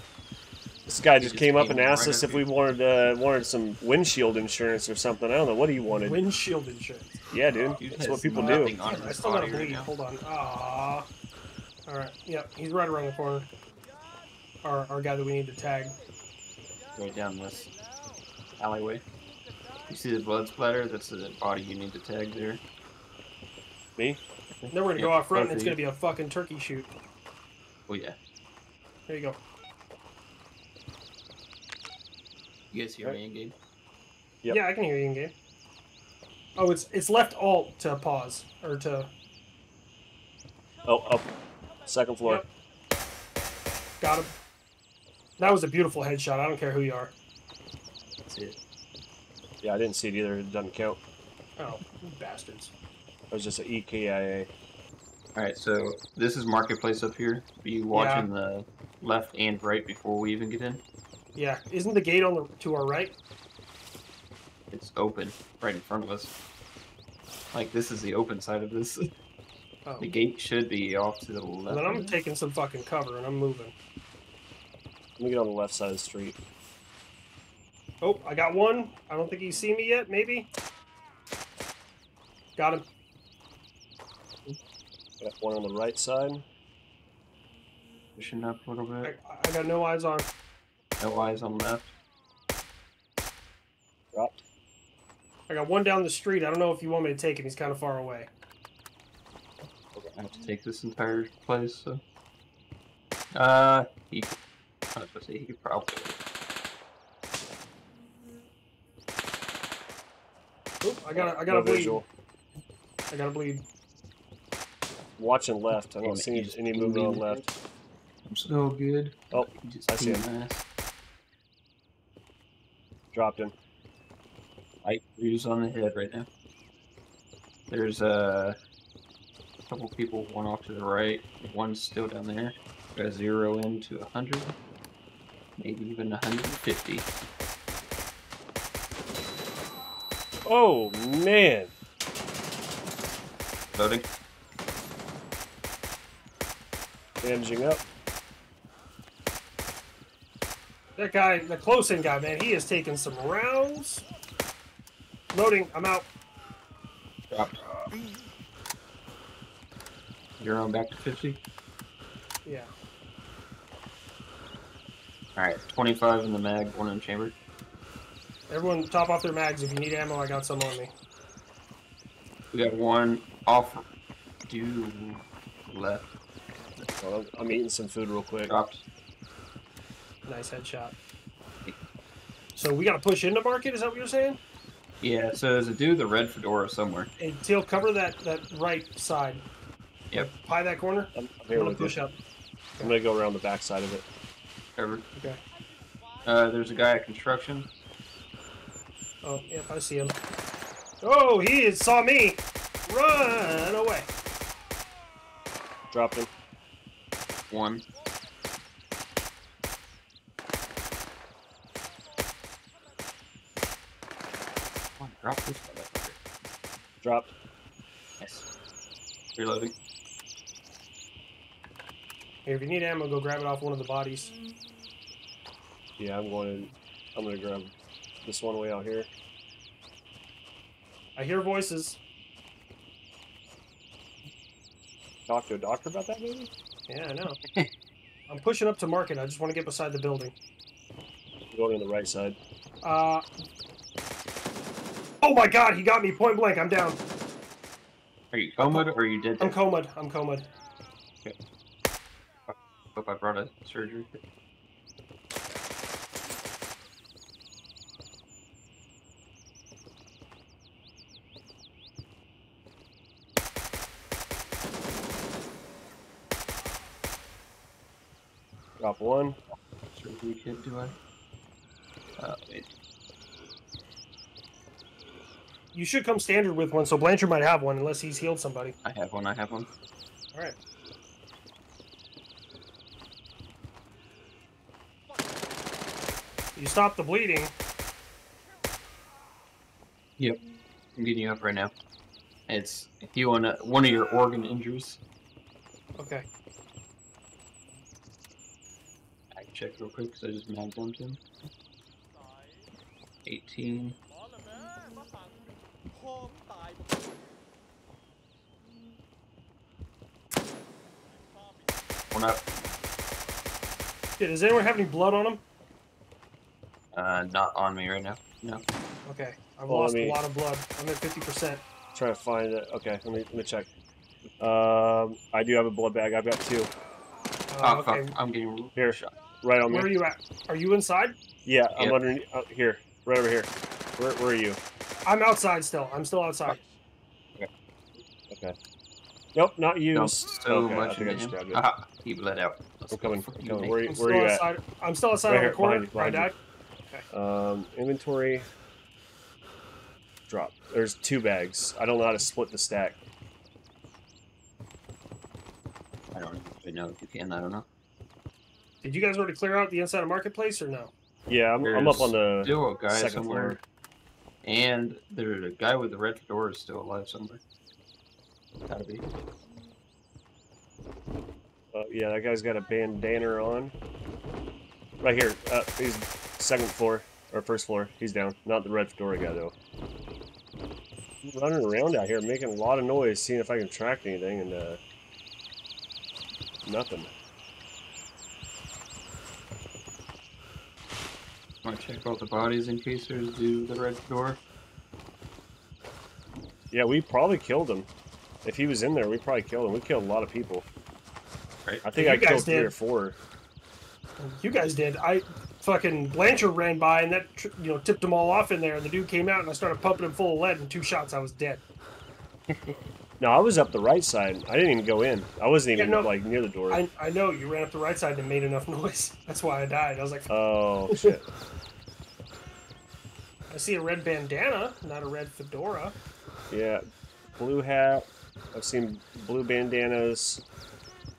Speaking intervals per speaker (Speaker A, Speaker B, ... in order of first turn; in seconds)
Speaker A: 0.9-6.2, 7.3-8.7, 40.9-41.3, 41.9-42.4, 49.6-51.0, 53.3-54.5, 75.2-76.4, 85.2-86.5, 111.2-112.1, 115.2-117.4, 119.3-120.2, 123.1-123.5, 140.4-141.7, 147.2-147.8, 177.0-178.6, 191.2-192.0, 192.8-194.1, 205.9-206.3, 217.0-217.3, 226.0-227.7, 228.2-229.1, 235.3-236.5, 241.5-242.4, 268.8-269.4, 319.7-320.2, 321.9-323.7, 324.4-326.7, 328.8-329.9, 331.5-334.6, 338.3-338.6, 339.4-341.6, 342.9-344.4, 345.3-346.3, 347.1-348.5, 350.3-353.0, 361.3-363.6, 371.7-373.8, 375.0-379.5, 381.2-384.8, 386.6-387.1, 396.7-397.9, 398.4-400.7, 401.9-403.2, 413.2-416.8, 420.3-421.2, 426.5-426.8, 427.4-430.4
Speaker B: 1.2-2.5, 7.8-9.9, 17.0-17.7, 18.6-19.0, 19.9-22.6, 24.6-25.8, 27.9-28.2, 32.7-33.5, 48.3-48.6, 55.4-60.8, 64.7-66.3, 67.5-69.1, 70.0-72.2, 88.2-89.1, 91.0-91.9, 100.1-102.0, 103.3-104.4, 105.0-106.2, 116.0-117.5, 118.3-120.6, 124.8-126.3, 127.7-128.6, 129.7-134.6, 135.6-137.1, 143.7-144.1, 157.3-157.7, 160.4-161.4, 165.4-167.3, 172.5-173.8, 174.5-176.1, 178.5-178.8, 185.0-187.1, 194.8-195.1, 196.2-197.7, 207.5-207.8, 215.0-216.2, 218.2-218.5, 219.4-219.7, 248.3-249.6, 252.5-254.2, 269.9-271.0, 272.2-272.7, 278.8-279.7, 291.0-291.7, 292.5-295.0, 299.3-301.2, 303.2-304.0, 312.1-312.5, 316.9-318.6, 327.6-329.1, 339.9-343.8, 356.1-357.7, 361.6-363.6, 364.4-367.4, 368.7-369.1, 391.6-394.4, 412.5-412.8
Speaker C: 6.0-7.2, 8.3-11.1, 11.9-13.5, 14.6-16.0, 24.7-26.9, 29.1-29.4, 34.5-35.3, 36.6-39.1, 44.0-44.3, 45.4-47.1, 51.6-52.7, 57.9-58.3, 61.4-63.2, 71.7-73.7, 78.0-80.5, 82.6-82.8, 89.0-90.3, 95.5-98.3, 110.8-112.0, 113.1-113.6, 151.0-154.0, 155.3-156.1, 162.4-162.7, 168.5-170.9, 180.3-180.9, 182.6-184.4, 187.2-189.4, 190.4-192.2, 199.2-200.2, 201.0-204.1, 222.5-224.3, 231.2-232.0, 236.9-237.4, 238.3-240.3, 242.8-243.3, 245.2-247.0, 248.6-250.5, 275.7-278.8, 286.6-287.5, 296.0-296.3, 314.2-315.4, 319.1-321.6, 327.5-328.1, 329.7-331.2, 335.1-336.6, 343.9-346.3, 358.8-360.9, 402.0-402.7, 404.2-411.6, 415.8-416.1, 416.7-420.3, 420.9-421.1, 423.5-426.0